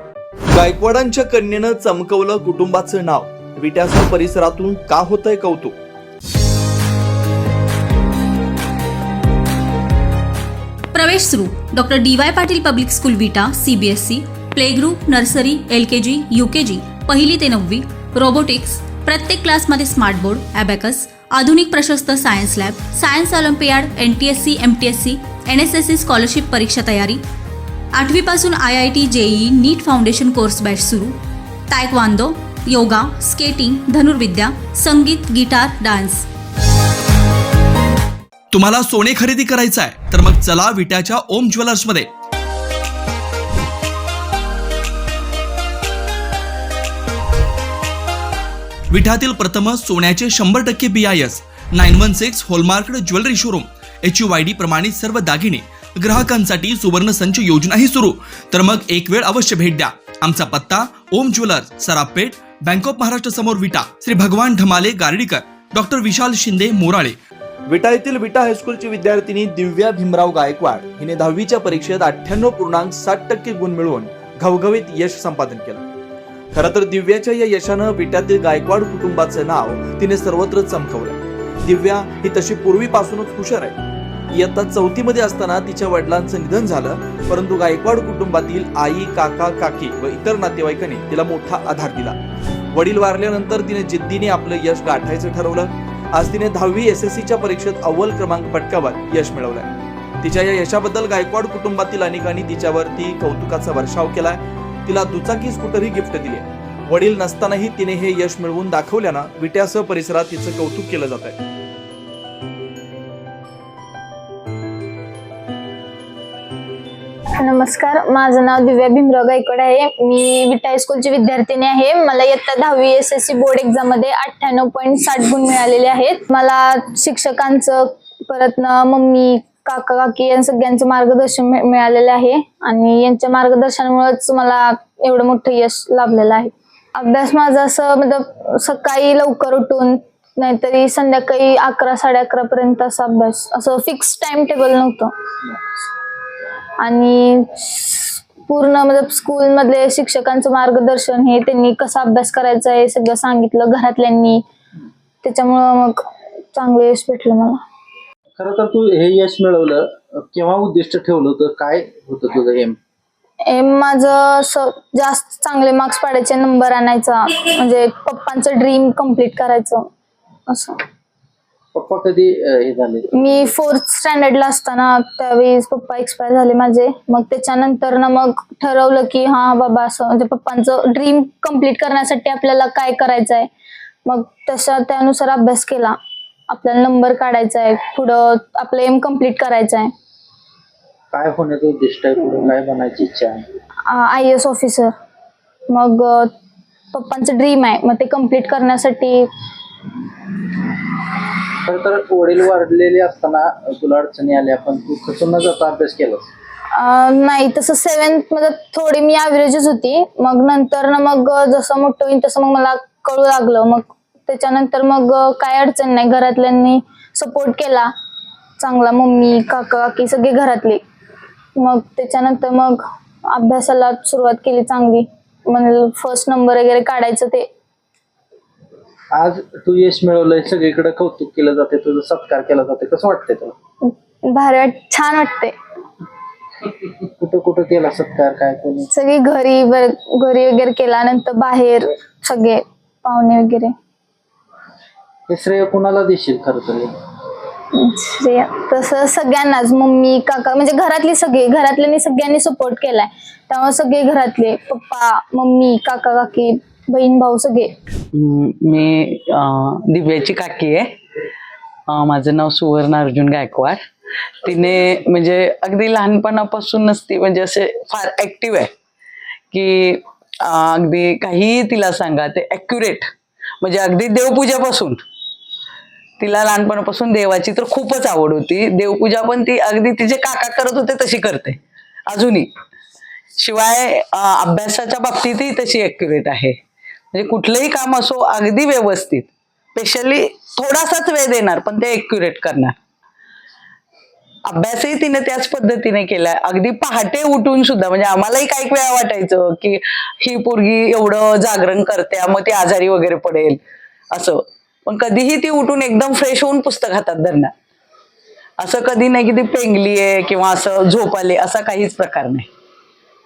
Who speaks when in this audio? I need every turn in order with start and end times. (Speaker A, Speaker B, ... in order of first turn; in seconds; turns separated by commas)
Speaker A: 0.5-5.8, Speaker B: 10.9-27.2, Speaker B: 27.9-31.2, Speaker B: 31.7-36.2, Speaker A: 38.5-42.1, Speaker A: 48.9-67.2, Speaker A: 67.7-75.8, Speaker A: 76.5-83.8, Speaker A: 84.3-92.2, Speaker A: 92.7-99.7, Speaker A: 100.2-111.4, Speaker C: 117.4-145.1, Speaker C: 146.8-154.4, Speaker C: 155.2-157.6, Speaker D: 158.4-162.8, Speaker C: 163.4-169.9, Speaker C: 170.5-170.8, Speaker D: 171.7-173.1, Speaker C: 173.2-183.5, Speaker C: 184.0-186.0, Speaker C: 186.5-189.9, Speaker D: 191.1-193.4, Speaker C: 193.8-194.9, Speaker C: 195.7-196.3, Speaker C: 196.9-199.3, Speaker D: 201.6-206.3, Speaker C: 206.7-217.9, Speaker C: 218.6-220.8, Speaker C: 221.6-227.5, Speaker D: 229.1-233.5, Speaker C: 233.8-235.5, Speaker D: 237.2-238.9, Speaker C: 238.9-243.7, Speaker D: 245.3-246.9, Speaker C: 247.7-257.7, Speaker E: 258.1-260.9, Speaker E: 261.9-263.8, Speaker E: 264.4-268.7, Speaker E: 269.5-273.1, Speaker E: 273.6-275.0, Speaker E: 276.2-282.5, Speaker E: 283.4-286.6, Speaker E: 287.1-292.7, Speaker E: 294.4-303.6, Speaker E: 304.1-307.5, Speaker E: 308.6-312.5